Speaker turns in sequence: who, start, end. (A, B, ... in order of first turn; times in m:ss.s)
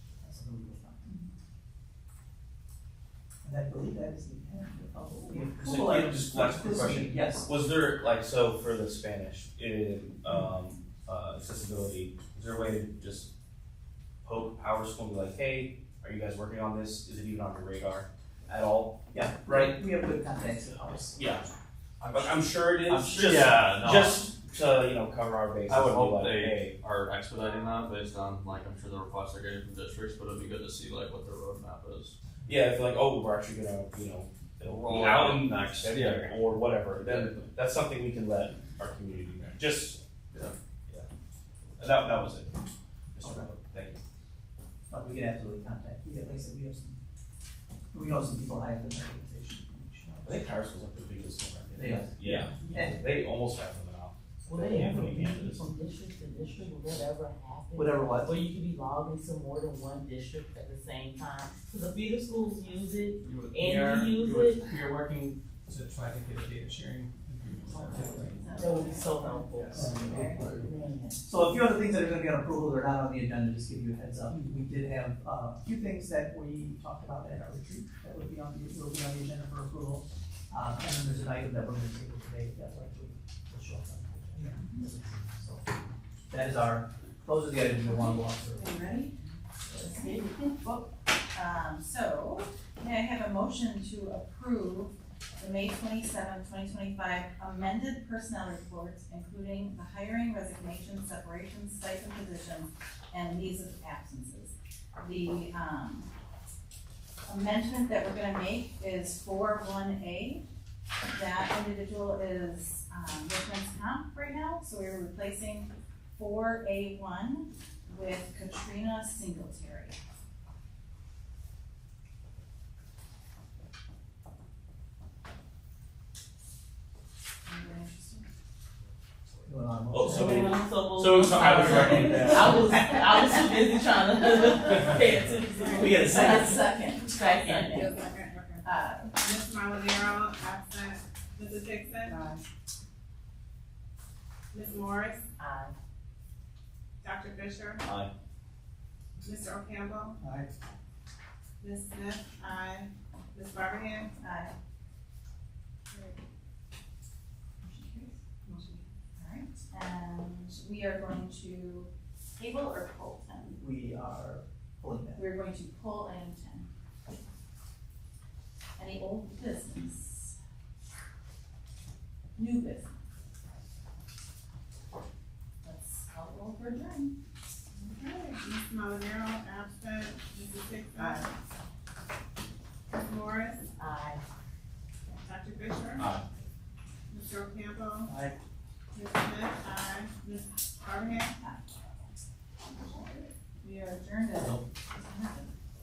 0:00.2-0:01.2 A
0:03.4-0:07.5 A
0:05.6-0:13.3 B
0:14.2-0:19.7 B
0:19.1-0:21.2 A
0:21.2-0:21.5 B
0:22.0-0:22.2 C
0:22.1-0:26.8 B
0:22.9-0:24.3 C
0:25.7-0:32.1 C
0:32.5-0:40.0 B
0:34.6-0:36.2 C
0:41.8-0:42.6 B
0:43.2-0:44.0 B
0:44.9-0:47.0 A
0:47.9-0:50.4 A
0:50.2-0:55.6 B
0:51.7-0:53.0 A
0:54.5-1:04.6 D
0:57.8-0:58.4 A
1:03.5-1:08.7 E
1:07.6-1:10.4 F
1:08.6-1:11.2 D
1:09.7-1:10.7 A
1:11.2-1:25.7 A
1:26.3-1:28.8 A
1:27.8-1:29.2 F
1:29.7-1:30.4 D
1:29.8-1:46.1 F
1:47.3-1:50.4 F
1:51.1-2:00.0 F
2:07.4-2:08.3 F
2:09.4-2:10.6 A
2:09.9-2:10.6 B
2:10.1-2:17.8 D
2:11.1-2:12.7 E
2:11.3-2:12.5 B
2:15.6-2:15.9 G
2:15.8-2:16.6 A
2:16.0-2:19.3 F
2:17.8-2:18.6 G
2:19.2-2:22.2 G
2:22.0-2:22.4 F
2:24.5-2:25.2 G
2:25.4-2:25.7 D
2:27.0-2:27.8 G
2:27.8-2:28.1 B
2:29.2-2:30.2 G
2:30.2-2:30.5 A
2:31.6-2:34.1 G
2:34.1-2:34.5 F
2:37.6-2:43.6 F
2:43.6-2:45.2 A
2:45.1-2:46.7 F
2:48.8-2:50.4 F
2:52.4-2:53.0 F
2:55.6-2:57.1 F
2:57.8-3:01.3 G
3:01.0-3:01.3 F
3:02.9-3:03.6 G
3:03.8-3:04.2 D
3:05.2-3:06.1 G
3:06.0-3:06.2 B
3:07.1-3:08.1 G
3:08.1-3:08.4 A
3:08.9-3:11.3 G
3:11.0-3:11.7 F
3:12.6-3:15.5 F